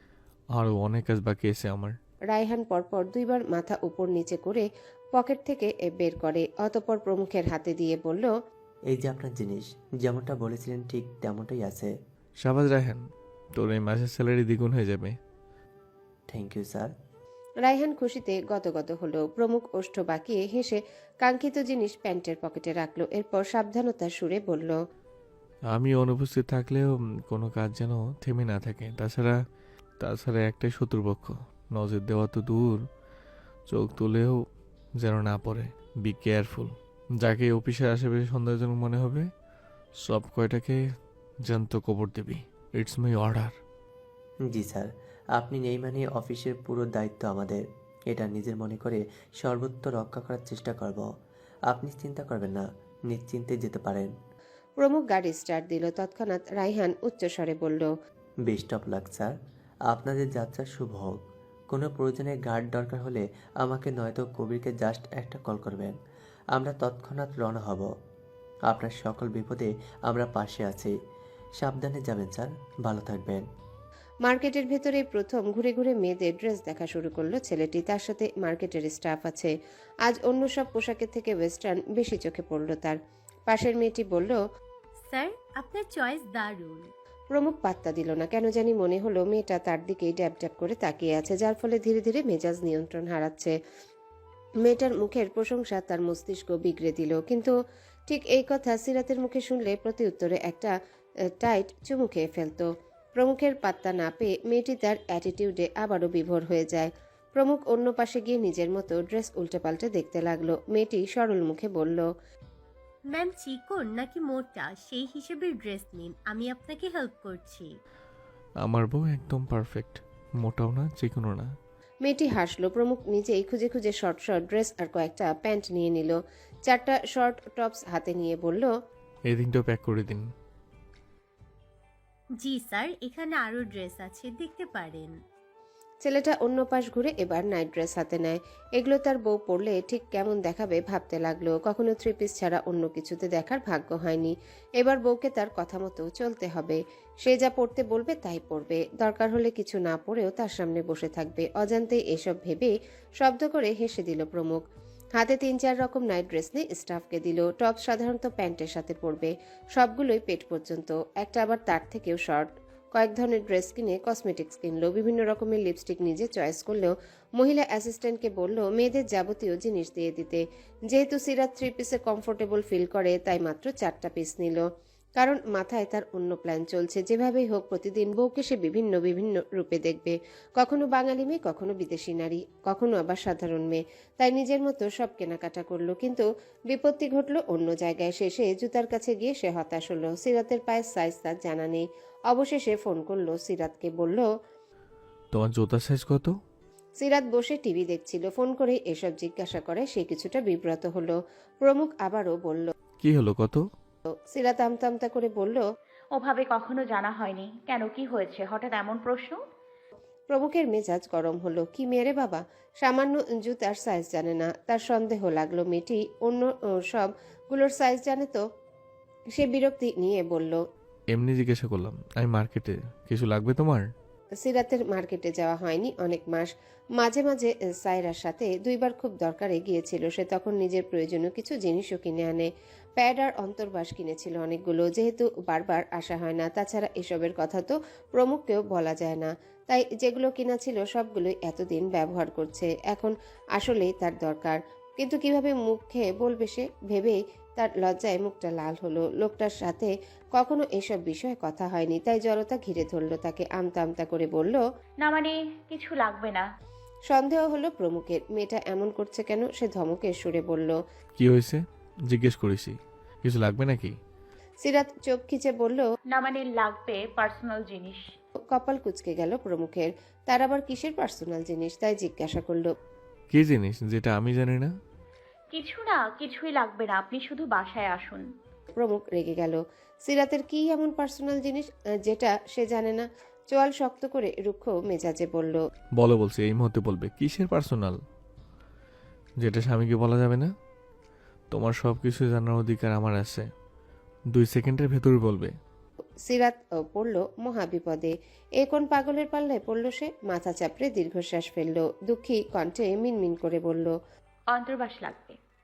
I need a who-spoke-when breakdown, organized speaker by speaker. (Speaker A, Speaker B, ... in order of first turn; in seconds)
Speaker A: 0.5-1.9, 12.4-13.0, 13.6-15.2, 25.7-29.4, 30.0-32.8, 33.7-34.4, 35.0-39.3, 40.0-40.8, 41.5-43.5, 118.6-121.5, 129.3-130.2, 195.3-196.3, 203.0-203.6, 221.1-223.8, 261.2-263.9, 273.3-274.7, 286.0-288.0, 289.4-290.5, 291.5-293.5, 294.3-295.5
Speaker B: 2.3-8.3, 17.6-24.8, 54.8-57.9, 74.2-79.5, 80.0-83.0, 83.5-84.4, 87.3-93.5, 94.6-97.5, 98.1-100.7, 101.4-112.1, 122.0-128.7, 136.0-154.6, 155.2-194.3, 197.0-202.7, 204.1-205.6, 210.3-218.4, 219.3-220.6, 224.4-254.6, 257.1-260.8, 264.6-265.9, 268.5-272.7, 278.8-285.6, 296.2-303.9
Speaker C: 8.9-11.9, 16.3-16.9, 44.5-51.1, 51.7-54.1, 58.5-59.3, 59.9-61.2, 61.7-66.0, 66.5-67.9, 68.7-70.9, 71.6-73.5
Speaker D: 85.1-86.9, 113.1-117.7, 132.4-135.1
Speaker E: 206.2-209.4, 255.0-256.5, 266.1-268.1, 275.5-278.3, 304.5-305.4